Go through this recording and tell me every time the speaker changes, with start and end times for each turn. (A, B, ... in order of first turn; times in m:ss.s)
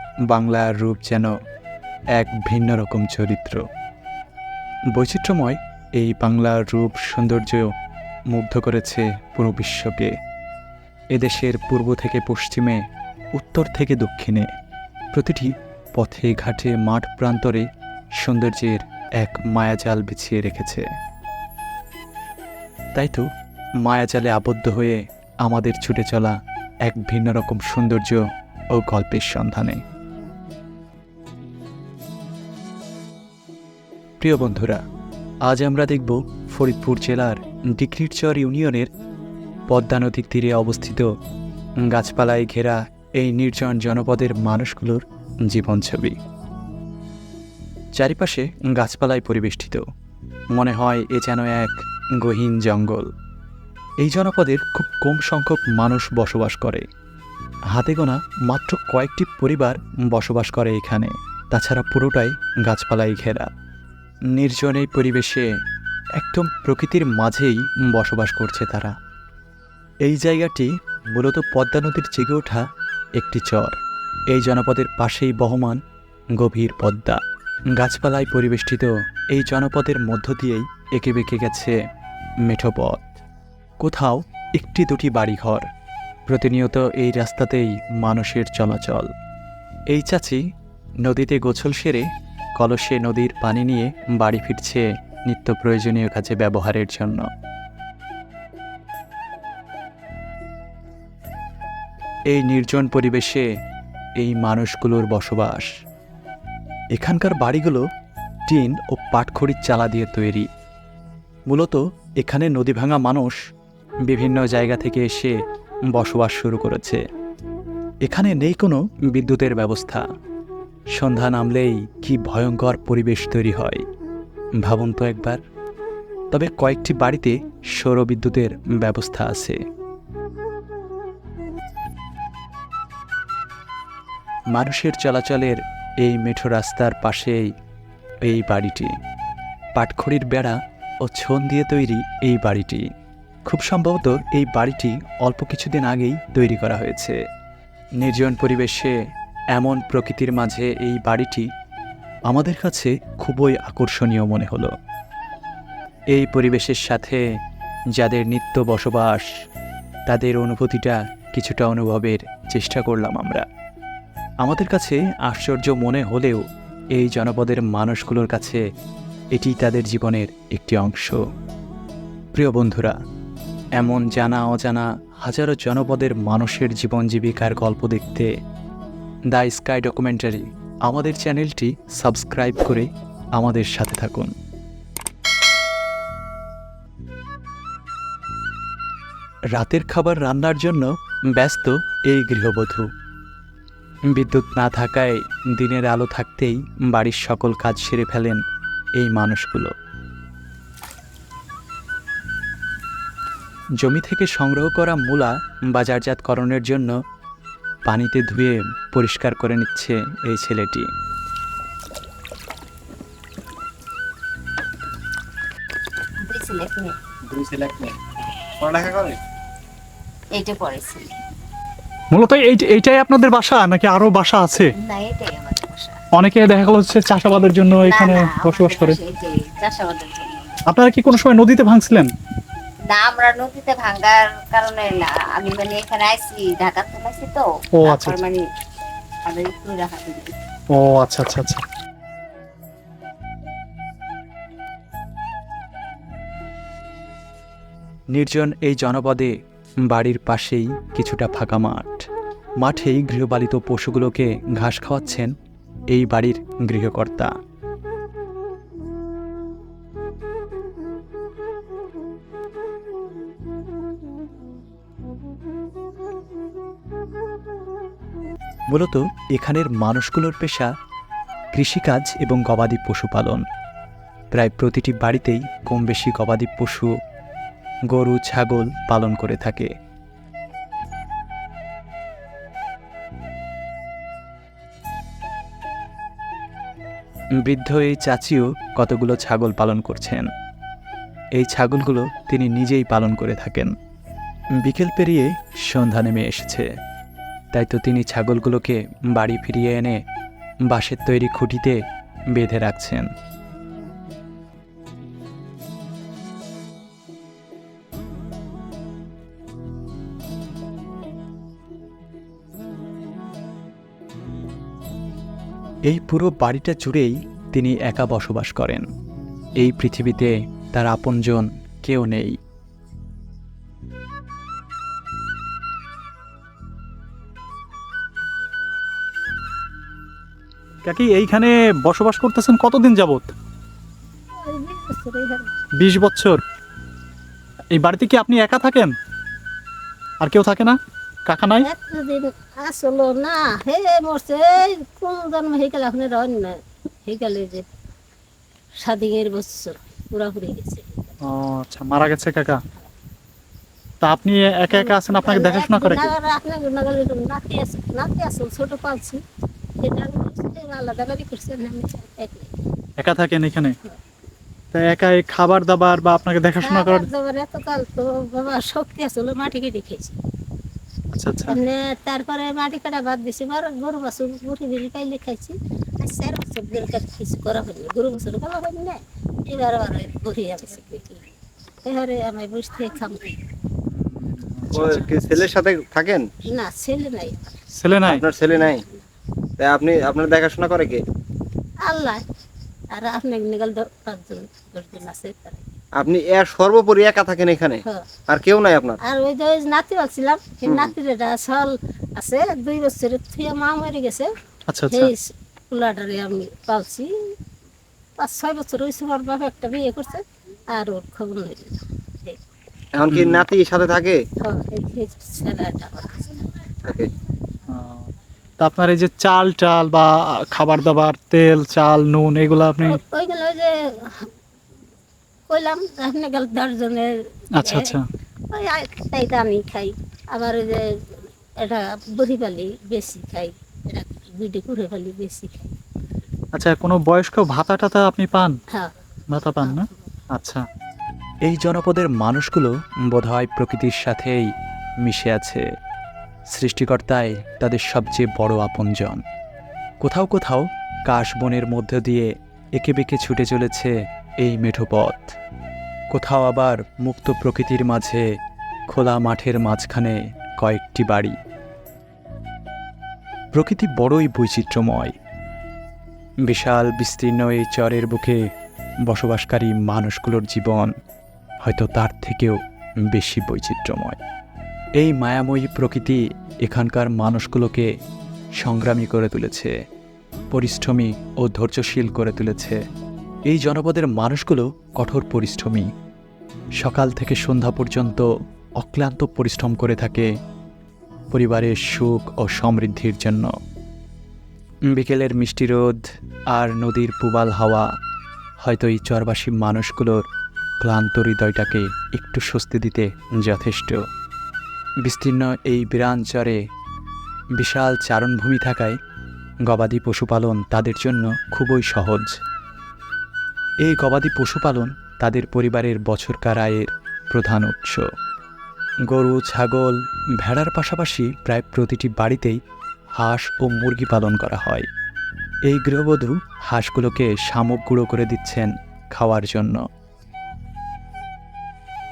0:00.3-0:01.3 A
0:02.1-0:03.6 A
0:04.9-0:07.7 A
0:08.3-0:10.1 A
0:11.1-0:12.8 A
0:13.4-0:14.5 A
0:15.1-0:17.7 A
0:18.2-0:20.8 A
0:23.0-0:23.3 A
0:23.8-0:26.3 A
0:26.8-0:28.2 A
0:28.7-0:29.8 A
0:34.2-0:34.8 A
0:35.4-0:38.9 A
0:39.7-0:41.0 A
0:41.9-0:46.2 A
0:48.0-0:49.8 A
0:50.5-0:53.1 A
0:54.0-0:56.8 A
0:57.7-1:03.5 A
1:04.3-1:05.5 A
1:06.2-1:08.9 A
1:10.0-1:12.6 A
1:13.2-1:13.8 A
1:14.3-1:15.8 A
1:16.4-1:17.2 A
1:17.7-1:21.7 A
1:22.4-1:23.2 A
1:23.8-1:25.6 A
1:26.3-1:29.1 A
1:29.9-1:30.4 A
1:31.0-1:32.0 A
1:32.6-1:37.3 A
1:42.3-1:43.4 A
1:44.2-1:45.7 A
1:47.0-1:47.8 A
1:48.5-1:50.5 A
1:51.5-1:53.4 A
1:54.1-1:55.4 A
1:55.9-1:57.0 A
1:58.0-2:00.0 A
2:00.9-2:03.8 A
2:04.6-2:05.4 A
2:06.3-2:09.6 A
2:14.5-2:17.5 A
2:18.2-2:19.0 A
2:19.8-2:22.8 A
2:23.4-2:27.2 A
2:28.0-2:29.0 A
2:29.5-2:31.5 A
2:32.3-2:34.7 A
2:36.1-2:37.2 A
2:38.0-2:39.3 A
2:40.1-2:43.4 A
2:44.4-2:46.4 A
2:46.9-2:48.6 A
2:49.3-2:51.2 A
2:52.3-2:53.0 A
2:53.8-2:58.3 A
2:59.3-3:04.3 A
3:09.5-3:12.8 A
3:14.1-3:18.4 A
3:19.0-3:19.7 A
3:23.8-3:26.9 A
3:27.8-3:30.9 A
3:36.2-3:37.0 B
3:37.3-3:37.9 C
3:38.6-3:39.2 C
3:40.3-3:41.1 B
3:42.1-3:44.7 D
3:44.8-3:46.0 B
3:46.1-3:49.0 D
3:47.8-3:50.6 B
3:50.6-3:52.1 D
3:52.9-3:58.4 B
3:57.8-3:58.2 D
3:59.2-4:00.3 B
4:00.7-4:01.6 D
4:08.1-4:09.3 A
4:09.9-4:12.0 A
4:12.6-4:15.3 A
4:15.9-4:17.3 A
4:28.7-4:30.7 A
4:31.5-4:33.4 A
4:34.3-4:36.9 A
4:37.9-4:39.7 A
4:47.4-4:50.3 A
4:51.4-4:53.7 A
4:54.6-4:56.7 A
4:57.5-5:00.0 A
5:00.7-5:01.8 A
5:02.3-5:03.1 A
5:15.9-5:18.9 A
5:19.6-5:22.4 A
5:30.8-5:33.3 D
5:34.4-5:35.5 E
5:35.8-5:36.4 D
5:37.7-5:38.9 D
5:40.2-5:41.7 D
5:41.6-5:47.6 E
5:48.8-5:51.1 E
5:51.2-5:52.6 D
5:54.0-5:56.1 D
5:54.7-5:59.2 E
5:59.8-6:02.5 E
6:03.0-6:03.8 D
6:04.7-6:07.1 D
6:06.6-6:10.2 E
6:11.1-6:11.6 D
6:11.5-6:21.2 E
6:21.8-6:23.3 E
6:23.9-6:25.1 D
6:24.7-6:26.2 C
6:26.5-6:27.5 E
6:27.7-6:28.2 D
6:28.0-6:28.8 C
6:29.6-6:31.0 C
6:31.8-6:32.2 E
6:32.9-6:35.6 E
6:36.0-6:39.0 C
6:39.0-6:44.3 E
6:40.7-6:40.9 C
6:44.7-6:45.1 D
6:44.9-6:47.3 E
6:48.2-6:52.4 E
6:53.0-6:54.2 C
6:53.1-6:53.4 D
6:54.4-6:56.3 E
6:57.7-6:58.0 D
6:58.6-7:03.0 D
7:02.8-7:04.3 E
7:05.5-7:08.0 E
7:07.6-7:08.1 D
7:08.5-7:15.7 E
7:16.5-7:18.6 D
7:19.3-7:20.6 D
7:21.4-7:24.5 A
7:25.0-7:25.6 A
7:26.5-7:29.2 A
7:30.0-7:35.3 A
7:36.1-7:38.2 A
7:38.9-7:41.4 A
7:43.5-7:45.1 A
7:46.4-7:48.4 A
7:49.1-7:50.9 A
7:51.6-7:52.6 A
7:53.1-7:54.2 A
7:55.0-7:57.9 A
7:58.6-7:59.7 A
8:00.5-8:02.8 A
8:03.5-8:05.9 A
8:06.8-8:08.3 A
8:08.8-8:10.3 A
8:11.3-8:13.5 A
8:14.9-8:16.0 A
8:16.5-8:17.9 A
8:18.6-8:20.2 A
8:20.8-8:24.0 A
8:25.0-8:26.6 A
8:27.6-8:29.0 A
8:29.6-8:32.4 A
8:33.8-8:38.0 A
8:39.1-8:42.6 A
8:43.2-8:44.9 A
8:45.7-8:49.8 A